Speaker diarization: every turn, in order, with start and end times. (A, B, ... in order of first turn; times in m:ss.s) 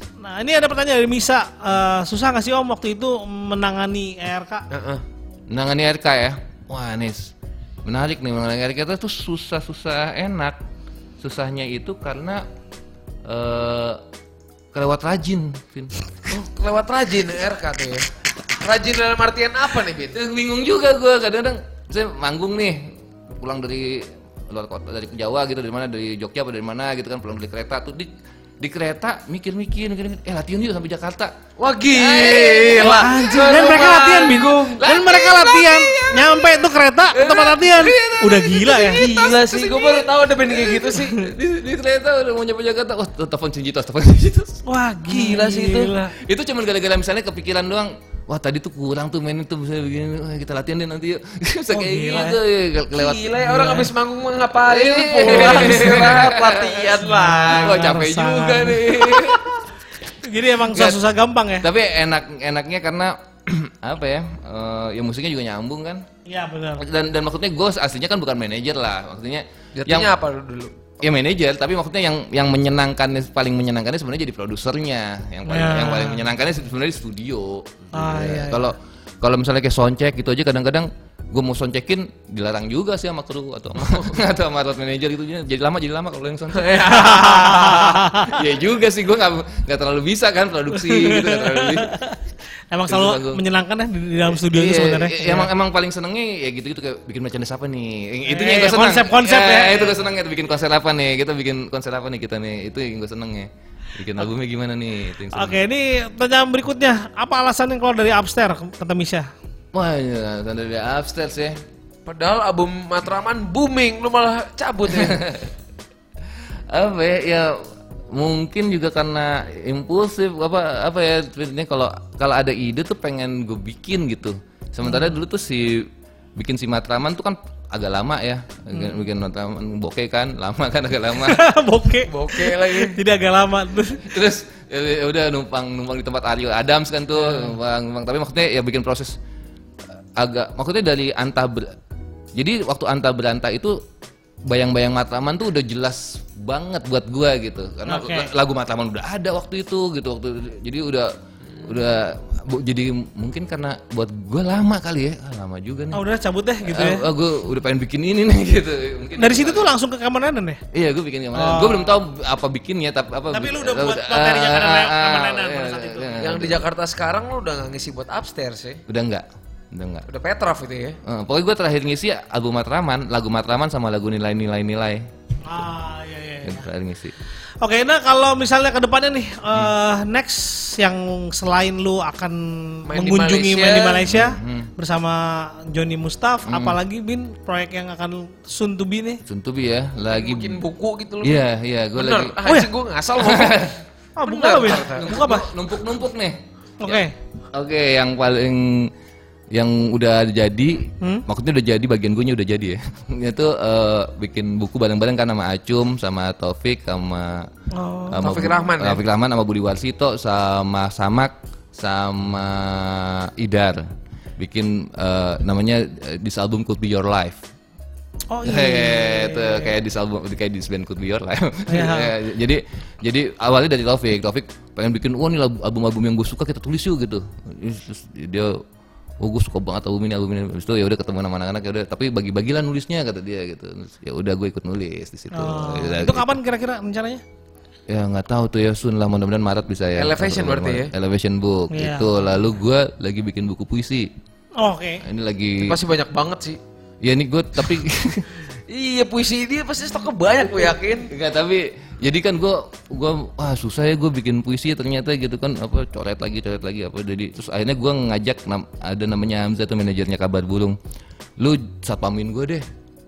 0:00.2-0:04.7 A
0:04.7-0:05.0 B
0:05.5-0:07.3 C
0:07.8-0:10.6 C
0:11.2-0:12.5 C
0:13.3-0:14.0 C
0:14.7-0:16.4 C
0:16.3-0:20.2 B
0:20.1-0:31.3 C
0:31.6-0:34.8 B
0:31.9-0:44.6 C
0:32.8-0:39.0 A
0:39.0-0:41.3 B
0:44.7-0:46.1 A
0:45.1-0:45.9 B
0:46.1-0:53.3 C
0:51.7-0:52.4 A
0:52.9-0:57.8 B
0:53.4-0:53.9 A
0:54.6-0:59.6 C
0:55.3-0:56.0 A
0:57.0-1:01.7 A
1:00.7-1:01.0 C
1:01.6-1:06.1 C
1:06.3-1:06.8 A
1:06.8-1:10.1 C
1:09.8-1:11.0 B
1:11.0-1:32.0 C
1:15.5-1:16.2 A
1:17.9-1:18.7 A
1:26.5-1:28.0 B
1:26.9-1:28.4 A
1:30.7-1:32.2 A
1:32.7-1:35.5 A
1:32.9-1:33.4 C
1:34.4-1:45.6 C
1:38.3-1:40.0 A
1:45.3-1:49.3 A
1:49.7-1:51.6 C
1:52.1-1:55.2 B
1:54.9-1:55.5 C
1:56.7-2:11.4 C
2:04.9-2:05.1 A
2:08.7-2:09.0 A
2:11.2-2:14.1 A
2:12.1-2:13.0 B
2:14.0-2:19.2 C
2:20.2-2:21.8 C
2:22.4-2:23.8 C
2:24.5-2:31.1 C
2:27.8-2:28.3 A
2:31.6-2:36.0 C
2:35.9-2:37.1 A
2:36.6-2:39.7 C
2:39.2-2:40.6 A
2:40.7-2:46.7 C
2:41.4-2:41.9 A
2:43.3-2:46.2 A
2:46.2-2:48.8 B
2:48.9-2:50.1 C
2:50.1-2:51.0 B
2:51.0-2:55.1 C
2:55.5-2:56.7 A
2:56.4-2:57.1 C
2:57.6-3:09.2 A
3:02.9-3:04.0 B
3:04.0-3:04.7 C
3:06.5-3:06.8 C
3:09.2-3:10.6 C
3:10.1-3:13.7 B
3:11.2-3:12.4 C
3:13.2-3:13.8 C
3:14.2-3:15.5 A
3:14.3-3:15.1 B
3:14.8-3:18.9 C
3:16.8-3:17.1 A
3:19.5-3:27.5 C
3:27.8-3:28.5 A
3:28.1-3:33.9 C
3:28.2-3:29.0 B
3:34.4-3:37.4 C
3:38.3-3:39.7 A
3:38.4-3:48.6 C
3:41.7-3:42.1 A
3:49.2-3:56.4 C
3:55.3-3:57.2 A
3:57.9-4:04.1 C
4:00.0-4:00.9 B
4:01.7-4:02.2 A
4:04.6-4:05.0 A
4:05.0-4:05.8 C
4:05.6-4:06.6 B
4:07.0-4:08.3 C
4:08.7-4:11.1 B
4:11.1-4:20.8 C
4:21.4-4:22.6 C